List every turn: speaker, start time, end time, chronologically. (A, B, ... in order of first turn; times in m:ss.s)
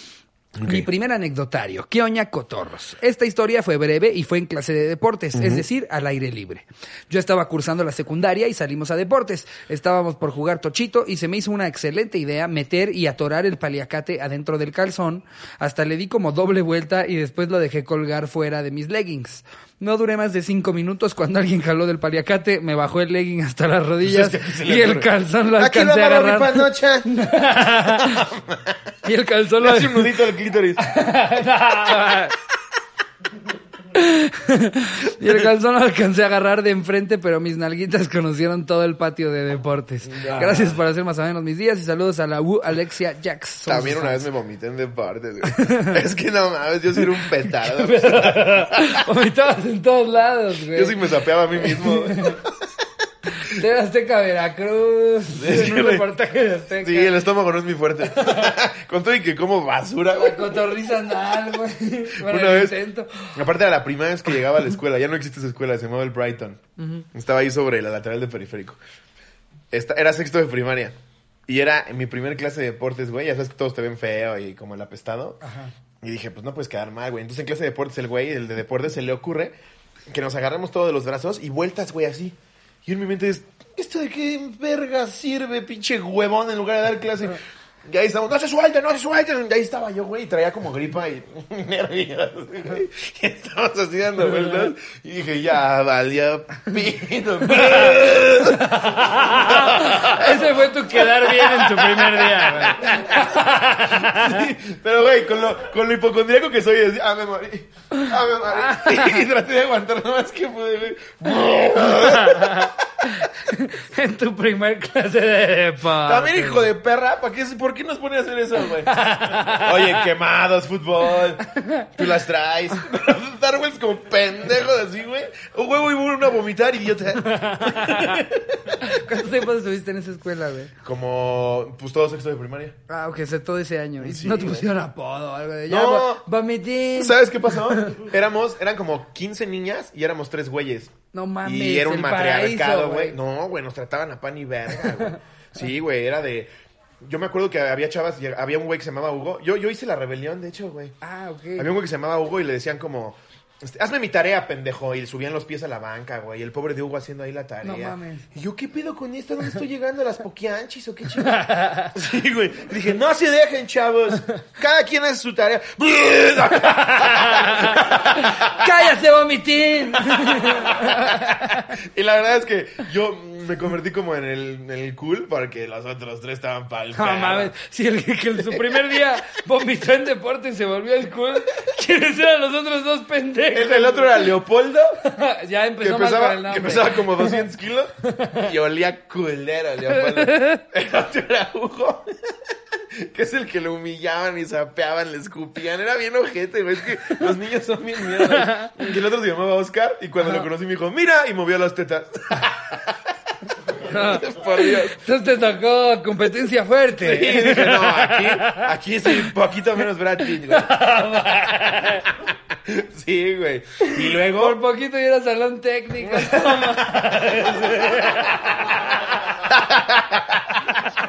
0:00.6-0:00.9 A
0:00.6-0:28.2 B
0:05.3-0:05.6 A
0:24.0-0:27.1 A
0:27.9-0:28.8 A
0:29.0-0:30.2 B
0:29.6-0:30.8 A
0:30.8-0:32.4 B
0:33.9-0:44.2 B
0:40.1-0:40.8 A
0:43.7-0:49.0 A
0:45.5-0:46.0 B
0:47.4-0:51.0 B
0:50.7-0:52.4 A
0:51.5-0:52.4 B
0:53.3-0:57.2 B
0:55.4-0:56.0 A
0:56.8-1:00.7 A
0:58.0-0:58.5 B
1:00.1-1:03.4 B
1:02.2-1:02.8 A
1:03.3-1:06.6 A
1:06.8-1:07.0 B
1:07.1-1:08.8 A
1:09.7-1:10.9 A
1:11.5-1:15.4 A
1:15.4-1:15.7 B
1:16.0-1:19.5 A
1:20.1-1:53.1 A
1:34.2-1:34.7 B
1:37.4-1:44.5 B
1:48.5-1:49.2 B
1:51.8-1:56.7 B
1:56.0-2:08.8 A
1:58.8-1:59.8 B
2:01.4-2:01.9 B
2:07.2-2:08.2 B
2:08.8-2:10.7 B
2:10.8-2:12.8 A
2:12.9-2:18.0 B
2:14.0-2:14.7 A
2:15.7-2:16.2 A
2:17.0-2:26.5 A
2:21.1-2:23.2 B
2:27.0-2:30.9 A
2:31.0-2:31.7 B
2:31.6-2:48.6 A
2:37.6-2:38.3 B
2:41.2-2:41.9 B
2:46.6-2:51.8 B
2:50.1-2:51.1 A
2:51.7-2:57.5 A
2:56.9-3:04.3 B
2:58.5-2:59.0 A
3:03.5-3:05.0 A
3:05.0-3:07.4 B
3:05.8-3:12.1 A
3:08.0-3:08.5 B
3:09.9-3:10.6 B
3:12.9-3:23.0 A
3:18.1-3:18.7 B
3:23.8-3:25.0 A
3:23.8-3:29.3 B
3:27.0-3:30.9 A
3:30.3-3:32.1 B
3:32.5-3:34.6 A
3:33.8-3:39.0 B
3:36.0-3:38.3 A
3:39.4-3:40.8 A